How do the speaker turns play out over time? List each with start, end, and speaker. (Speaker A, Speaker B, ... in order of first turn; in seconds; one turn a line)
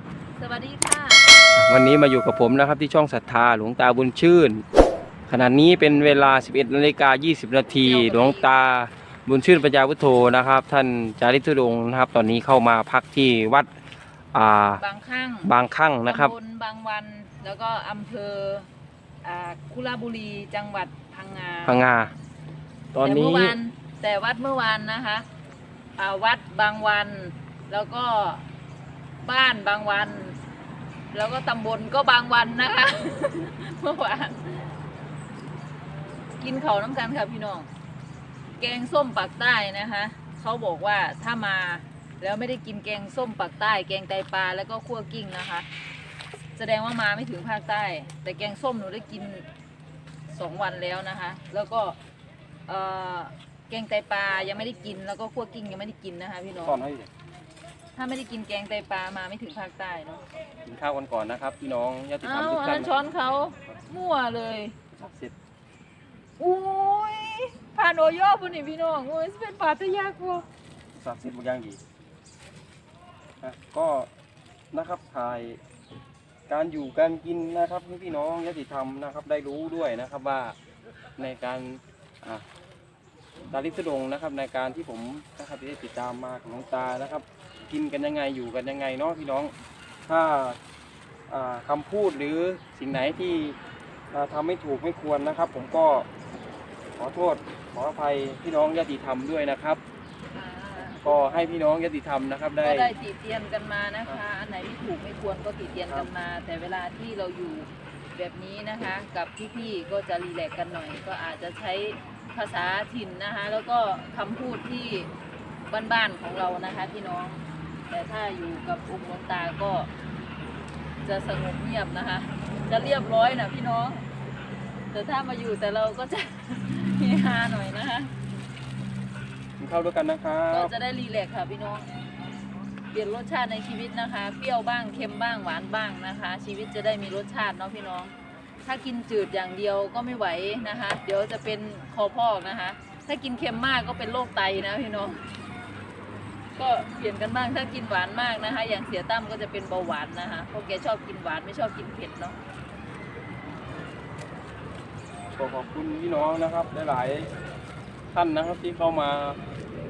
Speaker A: 0.4-1.3
Speaker B: 1.5-4.6
Speaker B: 5.3-13.7
Speaker A: 7.8-8.5
Speaker B: 14.3-14.8
Speaker A: 14.8-15.5
Speaker B: 15.4-16.3
Speaker A: 16.1-18.7
Speaker A: 19.2-21.8
Speaker B: 21.6-22.1
Speaker B: 22.9-23.6
Speaker A: 23.0-25.2
Speaker A: 26.0-28.4
Speaker A: 29.2-30.4
Speaker A: 31.1-34.7
Speaker A: 36.4-37.7
Speaker A: 38.6-45.7
Speaker A: 46.5-49.5
Speaker A: 50.3-52.0
Speaker A: 52.7-56.8
Speaker B: 56.6-57.1
Speaker A: 58.0-60.2
Speaker B: 60.6-63.0
Speaker A: 62.2-64.8
Speaker B: 64.9-65.3
Speaker A: 66.4-70.4
Speaker B: 71.0-71.8
Speaker B: 73.4-74.1
Speaker B: 74.7-75.6
Speaker B: 76.5-80.5
Speaker B: 81.2-82.4
Speaker B: 83.5-89.5
Speaker B: 90.1-90.6
Speaker B: 91.3-93.6
Speaker B: 94.1-96.1
Speaker B: 97.0-99.8
Speaker A: 100.3-101.5
Speaker B: 101.0-102.9
Speaker A: 102.6-115.1
Speaker A: 115.7-119.9
Speaker A: 121.0-124.0
Speaker A: 124.9-128.1
Speaker B: 129.6-130.7
Speaker A: 130.5-131.9
Speaker A: 132.9-138.1
Speaker A: 138.6-145.2
Speaker A: 146.6-152.4
Speaker B: 155.3-157.3
Speaker B: 158.1-159.4